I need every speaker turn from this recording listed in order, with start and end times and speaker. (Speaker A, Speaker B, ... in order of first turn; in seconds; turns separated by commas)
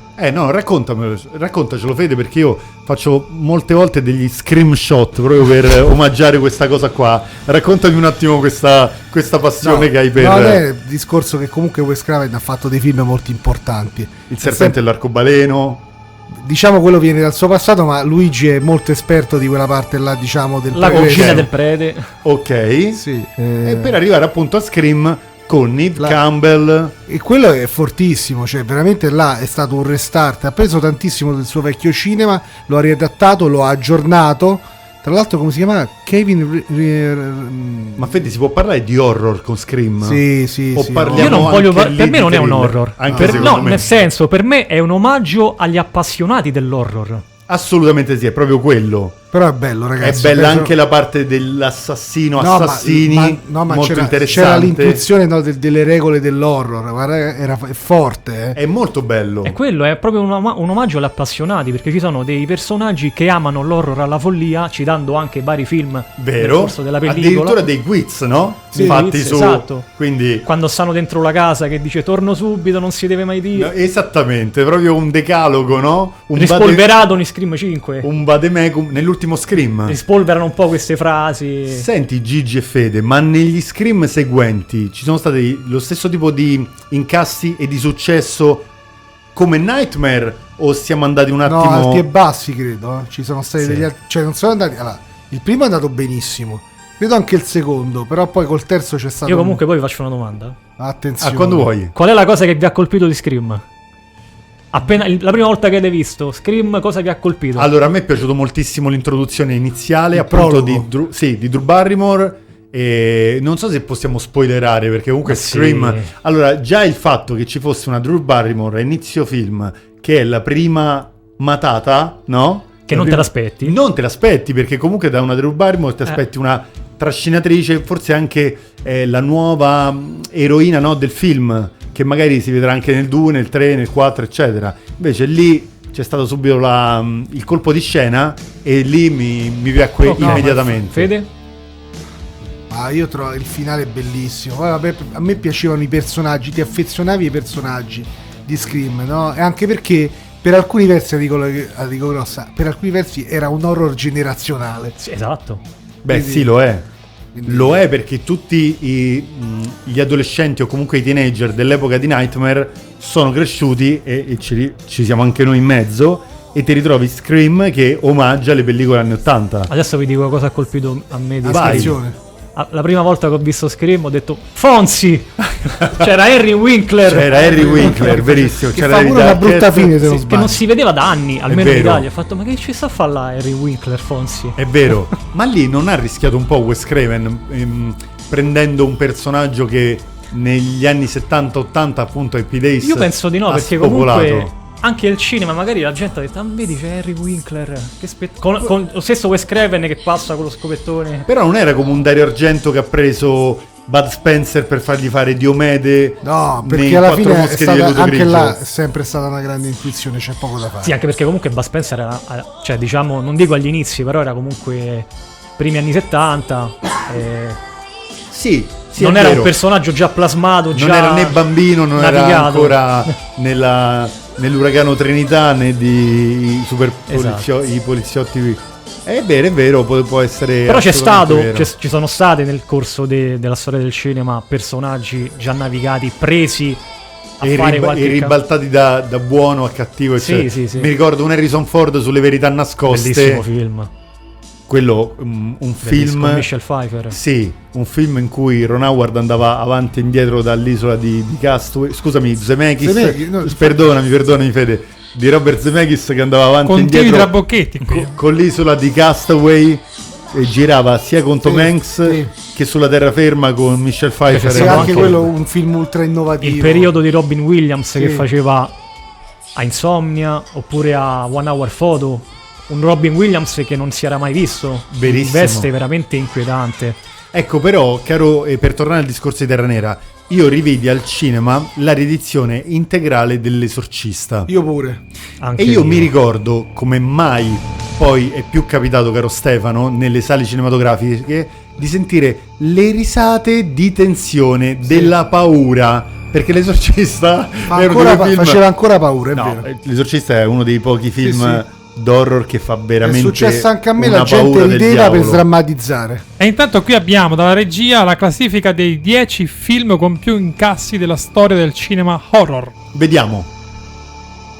Speaker A: 0.2-10.6, Speaker B: 9.6-14.8, Speaker A: 14.3-15.8, Speaker B: 16.3-21.5, Speaker C: 20.7-22.1, Speaker A: 20.8-21.5, Speaker A: 22.2-23.0, Speaker B: 22.9-24.0, Speaker A: 23.6-26.9, Speaker B: 27.1-38.2, Speaker A: 38.0-43.9, Speaker B: 40.0-41.6, Speaker C: 41.1-47.2, Speaker B: 43.1-43.7, Speaker A: 47.5-49.2, Speaker B: 49.3-50.7, Speaker A: 50.0-55.0, Speaker B: 52.4-58.6, Speaker A: 58.5-59.6, Speaker C: 59.4-67.6, Speaker A: 66.2-70.5, Speaker C: 68.7-69.9, Speaker B: 68.7-69.0, Speaker C: 70.4-73.7, Speaker A: 73.5-76.9, Speaker C: 76.3-78.1, Speaker A: 78.0-80.0, Speaker C: 79.9-81.9, Speaker A: 81.7-88.7, Speaker A: 89.3-92.1, Speaker B: 91.5-99.6, Speaker A: 93.6-93.9, Speaker C: 99.3-100.6, Speaker B: 100.8-101.7, Speaker A: 101.2-101.9, Speaker C: 101.9-103.6, Speaker C: 104.7-107.7, Speaker A: 107.6-141.1, Speaker B: 110.1-110.9, Speaker C: 115.3-116.1, Speaker C: 122.9-123.8, Speaker C: 140.0-141.3, Speaker B: 142.7-155.0, Speaker C: 155.0-155.6, Speaker A: 156.0-156.9, Speaker B: 156.1-156.5, Speaker B: 157.3-157.8, Speaker A: 157.5-169.7, Speaker C: 169.7-172.0, Speaker B: 171.4-172.2, Speaker A: 171.5-172.0, Speaker C: 172.6-178.2, Speaker A: 175.7-176.1, Speaker A: 177.1-180.0, Speaker B: 177.5-180.6, Speaker C: 180.0-184.6, Speaker A: 181.5-182.1, Speaker A: 184.6-194.5, Speaker C: 192.8-201.3, Speaker A: 201.3-208.6, Speaker B: 206.2-211.0, Speaker C: 210.8-217.6, Speaker A: 218.3-219.5, Speaker C: 219.0-221.4, Speaker A: 220.7-231.7, Speaker C: 221.9-223.1, Speaker C: 227.1-227.5, Speaker C: 230.7-236.8, Speaker C: 237.4-238.4, Speaker A: 237.4-243.4, Speaker C: 240.2-240.9, Speaker C: 242.9-243.9, Speaker A: 244.7-246.5, Speaker C: 245.8-247.2, Speaker A: 247.1-257.4, Speaker B: 252.8-253.9, Speaker D: 256.6-258.1, Speaker A: 258.0-265.3, Speaker B: 261.4-262.3, Speaker C: 264.3-265.3, Speaker B: 264.5-266.9, Speaker C: 266.4-268.7, Speaker B: 267.9-268.3, Speaker C: 269.6-277.0, Speaker A: 274.9-275.7, Speaker A: 277.3-284.5, Speaker B: 284.5-285.0, Speaker C: 285.4-286.1, Speaker A: 285.6-298.6, Speaker B: 297.7-299.6, Speaker A: 299.3-305.4, Speaker B: 301.2-301.6, Speaker B: 303.0-306.2, Speaker D: 306.4-312.7, Speaker A: 312.9-313.5